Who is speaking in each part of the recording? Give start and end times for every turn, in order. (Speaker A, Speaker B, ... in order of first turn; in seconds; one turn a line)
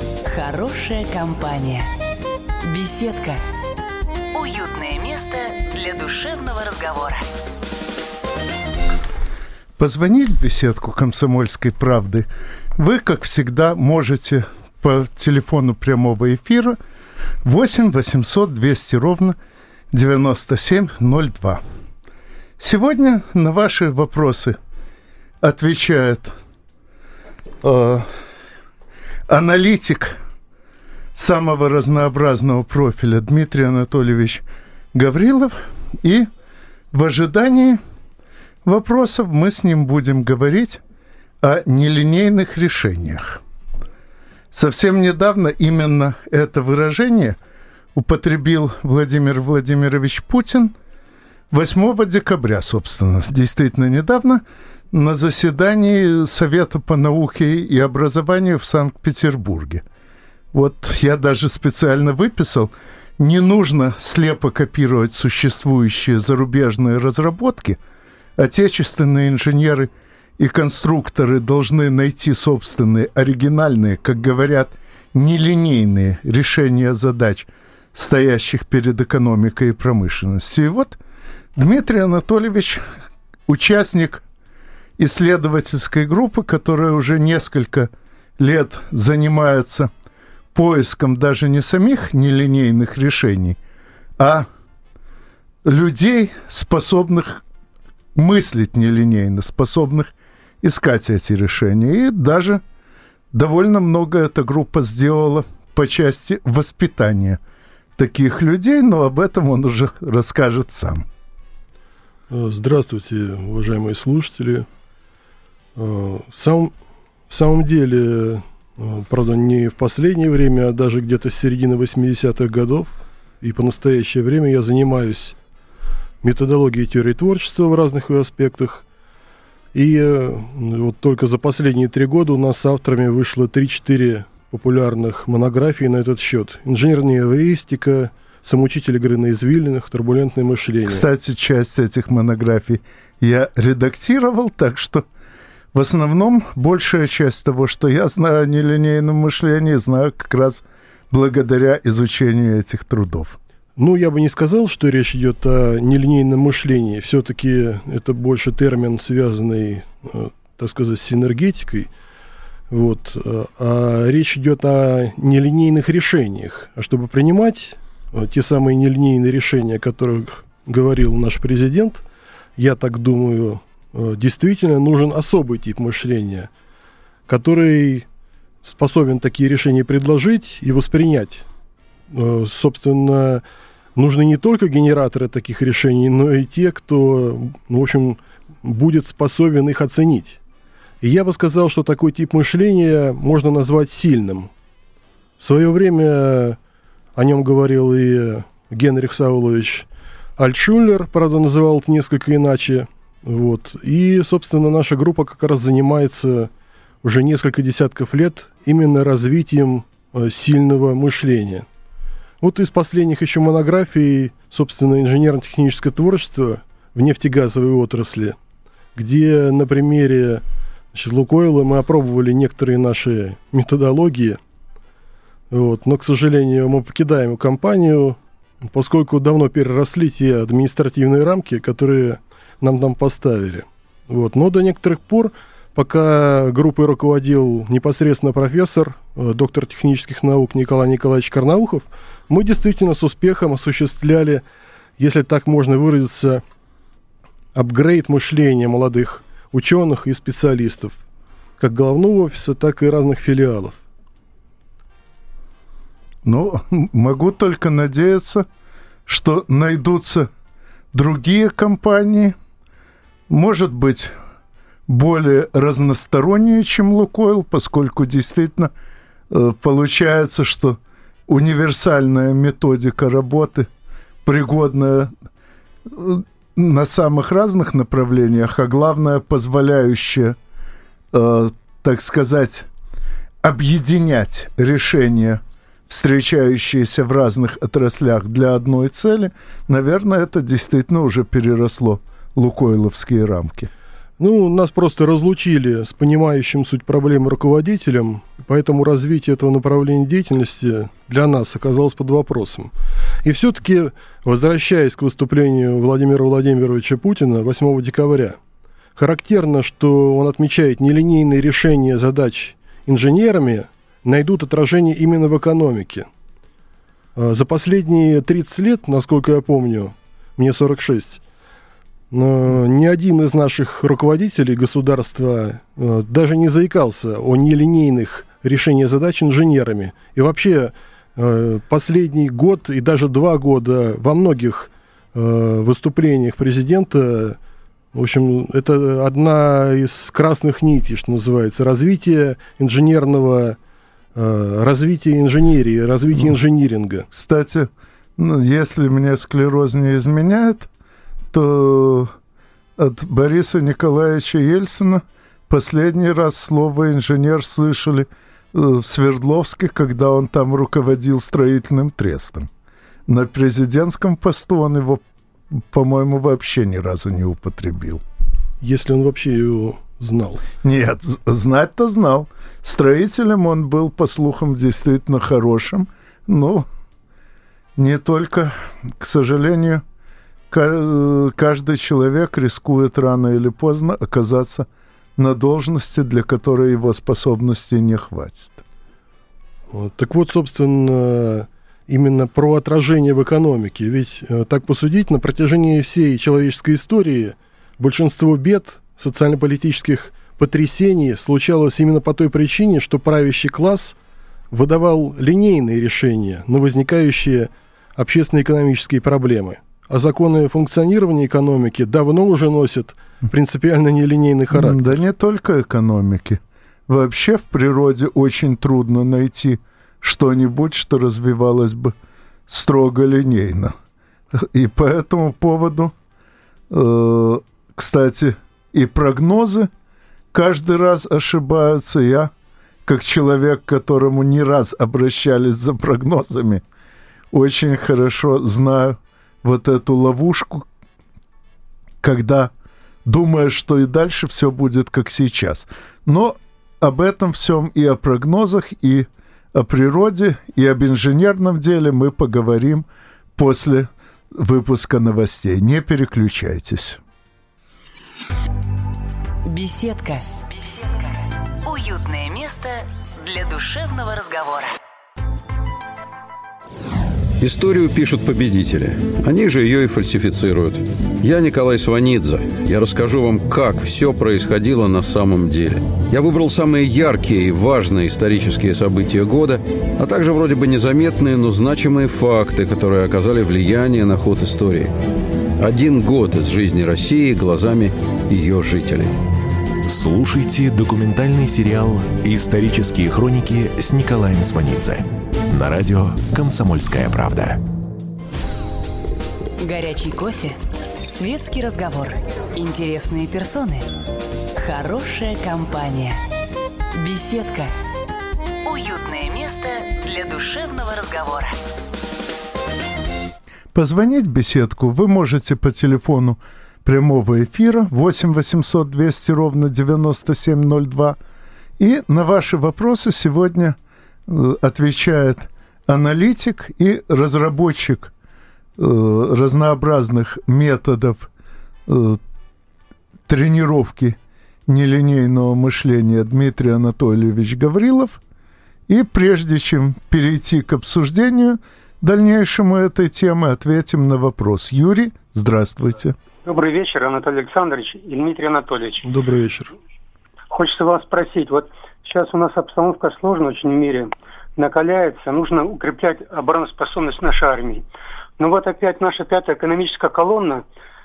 Speaker A: 0.2-1.9
Speaker A: 2.6-3.4
Speaker A: 4.3-7.2
Speaker B: 9.8-16.8
Speaker B: 17.4-19.4
Speaker B: 19.9-21.6
Speaker B: 22.6-24.6
Speaker B: 25.4-26.4
Speaker B: 27.6-28.1
Speaker B: 29.3-30.2
Speaker B: 31.1-36.3
Speaker B: 36.9-37.8
Speaker B: 38.6-40.8
Speaker B: 41.4-43.4
Speaker B: 44.5-47.4
Speaker B: 47.9-50.7
Speaker B: 51.5-59.8
Speaker B: 60.5-67.8
Speaker B: 68.4-81.0
Speaker B: 81.5-82.8
Speaker B: 83.5-84.2
Speaker B: 85.0-89.9
Speaker B: 90.5-93.6
Speaker B: 94.2-94.5
Speaker B: 95.6-97.4
Speaker B: 98.1-102.6
Speaker B: 103.3-107.4
Speaker B: 108.0-111.1
Speaker C: 112.3-114.7
Speaker C: 115.8-116.7
Speaker C: 117.3-125.4
Speaker C: 126.2-128.8
Speaker C: 129.7-141.1
Speaker B: 140.8-145.1
Speaker B: 145.7-153.4
Speaker C: 153.8-161.9
Speaker C: 162.7-172.0
Speaker C: 172.6-176.5
Speaker C: 177.3-178.1
Speaker C: 178.6-181.4
Speaker C: 182.1-183.4
Speaker C: 184.0-190.4
Speaker C: 191.0-194.5
Speaker C: 195.4-196.6
Speaker C: 197.2-199.9
Speaker C: 200.4-206.5
Speaker C: 207.0-211.7
Speaker C: 212.4-218.4
Speaker C: 219.0-220.4
Speaker C: 220.9-224.4
Speaker C: 225.5-244.4
Speaker C: 245.0-246.4
Speaker C: 247.6-251.0
Speaker C: 251.6-253.8
Speaker B: 256.2-258.4
Speaker B: 259.1-260.3
Speaker B: 260.9-262.4
Speaker B: 263.3-264.1
Speaker B: 264.9-268.7
Speaker B: 269.3-273.7
Speaker B: 274.2-275.1
Speaker B: 275.9-280.4
Speaker B: 281.1-282.7
Speaker B: 283.4-293.7
Speaker C: 294.2-302.7
Speaker C: 303.2-308.4
Speaker C: 308.9-316.1
Speaker C: 317.1-321.2
Speaker C: 322.1-337.4
Speaker C: 337.9-343.6
Speaker C: 344.1-347.1
Speaker B: 347.1-350.7
Speaker B: 351.3-352.1
Speaker B: 352.8-362.5
Speaker B: 363.1-368.0
Speaker C: 368.6-370.4
Speaker B: 370.6-376.7
Speaker B: 377.8-379.8
Speaker B: 380.5-388.6
Speaker C: 389.7-403.9
Speaker C: 404.5-414.9
Speaker B: 414.5-421.9
Speaker B: 422.5-423.7
Speaker B: 424.3-425.9
Speaker B: 426.7-429.7
Speaker B: 430.3-432.3
Speaker B: 432.8-436.6
Speaker B: 437.3-440.7
Speaker B: 442.0-442.5
Speaker B: 443.0-457.0
Speaker A: 459.4-464.7
Speaker D: 467.4-484.9
Speaker D: 485.6-489.1
Speaker E: 489.9-497.6
Speaker A: 499.6-503.9
Speaker A: 504.6-506.2
Speaker A: 506.9-507.8
Speaker A: 508.6-511.6
Speaker B: 513.7-521.2
Speaker B: 521.8-528.1
Speaker B: 528.8-531.3
Speaker B: 531.9-532.2
Speaker B: 533.3-538.2
Speaker B: 538.9-546.1
Speaker F: 546.5-549.0
Speaker C: 549.0-549.7
Speaker F: 550.5-557.9
Speaker F: 558.4-560.6